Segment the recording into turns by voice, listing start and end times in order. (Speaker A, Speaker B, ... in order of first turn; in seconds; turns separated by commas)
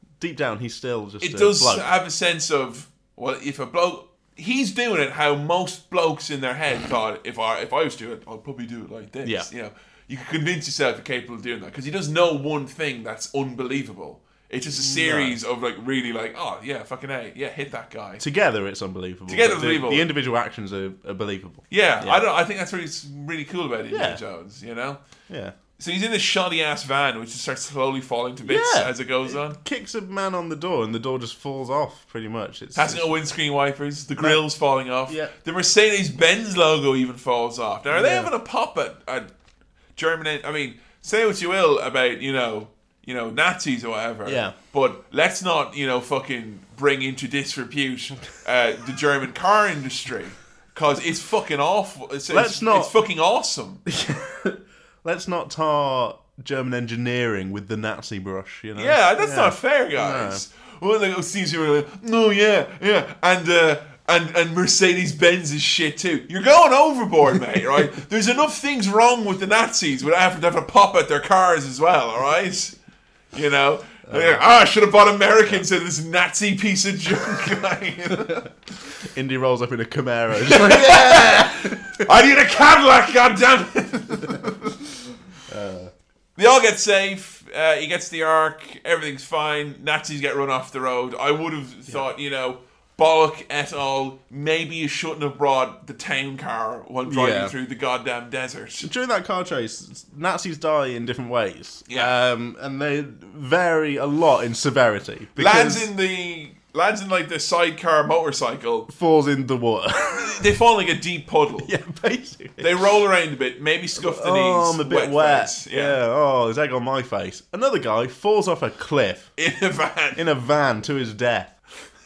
Speaker A: 0.2-1.9, Speaker B: 1.2-18.2, Speaker A: 14.7-15.4, Speaker A: 18.2-22.2, Speaker B: 19.3-20.1, Speaker B: 21.7-25.0, Speaker A: 23.9-24.2, Speaker A: 25.3-25.5, Speaker B: 25.8-29.6, Speaker A: 28.4-33.2, Speaker B: 32.8-39.3, Speaker A: 35.1-35.3, Speaker A: 37.9-38.3, Speaker B: 40.0-53.8, Speaker A: 44.2-44.5, Speaker A: 52.3-52.9, Speaker A: 53.9-60.4, Speaker B: 58.8-72.8, Speaker B: 73.3-78.5, Speaker A: 74.1-74.4, Speaker A: 79.0-82.1, Speaker B: 80.4-84.8, Speaker A: 85.5-85.9, Speaker B: 86.4-98.9, Speaker A: 97.1-97.5, Speaker A: 98.8-105.9, Speaker B: 101.9-102.1, Speaker B: 105.4-108.9, Speaker A: 108.9-110.5, Speaker B: 110.2-111.7, Speaker A: 111.6-112.9, Speaker B: 112.6-116.0, Speaker A: 114.0-119.3, Speaker B: 119.4-120.3, Speaker A: 120.2-121.5